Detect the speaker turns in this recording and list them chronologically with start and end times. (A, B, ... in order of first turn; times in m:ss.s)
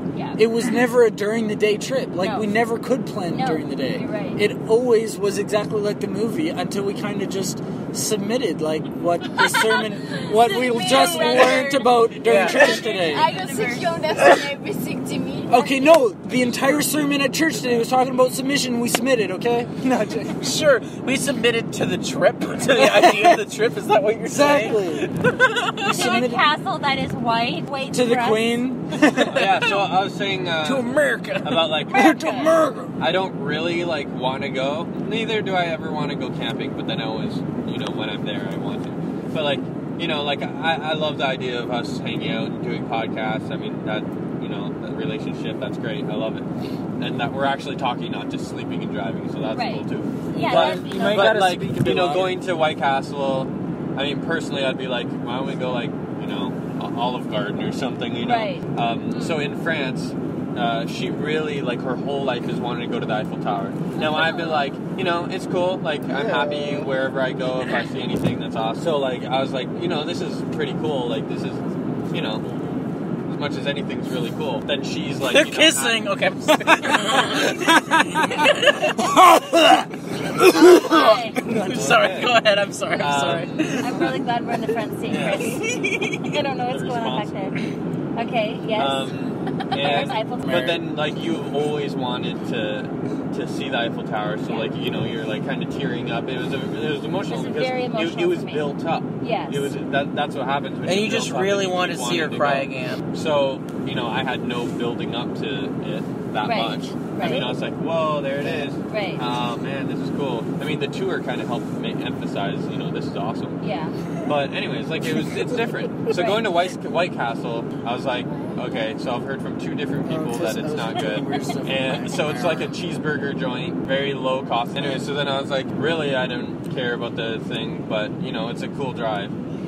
0:00.1-0:00.4 A
0:00.4-0:13.3 B
0:02.2-0:02.5 A
0:03.3-0:04.4 A
0:10.1-0:14.1 A
0:10.9-0:11.7 C
0:12.2-0:12.7 D
0:12.5-0:15.7 C
0:15.5-0:20.4 B
0:20.3-0:26.2 D
0:22.7-0:23.4 B
0:24.2-0:25.1 B
0:25.8-0:26.4 B
0:25.8-0:28.6 A
0:27.9-0:29.5 B
0:29.1-0:29.8 D
0:29.3-0:32.2 E
0:30.6-0:31.7 D
0:31.9-0:32.6 A
0:31.9-0:32.9 B
0:33.0-0:46.5 E
0:47.0-1:11.6 E
0:49.5-0:51.4 A
0:50.3-0:52.4 B
0:58.2-0:59.4 A
1:03.9-1:04.7 A
1:06.2-1:06.7 B
1:12.1-1:12.4 E
1:13.3-1:16.1 E
1:15.2-1:19.2 D
1:16.7-1:21.8 B
1:20.5-1:21.4 A
1:20.6-1:24.2 D
1:21.7-1:22.4 E
1:23.0-1:23.9 E
1:23.8-1:27.6 A
1:25.1-1:25.6 E
1:25.3-1:26.1 D
1:26.6-1:27.5 E
1:28.2-1:29.1 A
1:28.8-1:53.6 E
1:29.7-1:30.8 A
1:37.3-1:39.7 A
1:40.8-1:43.0 D
1:46.4-1:47.5 A
1:48.8-1:49.2 A
1:53.6-1:53.9 A
1:54.2-2:09.3 E
1:56.1-1:56.4 A
2:00.0-2:02.8 B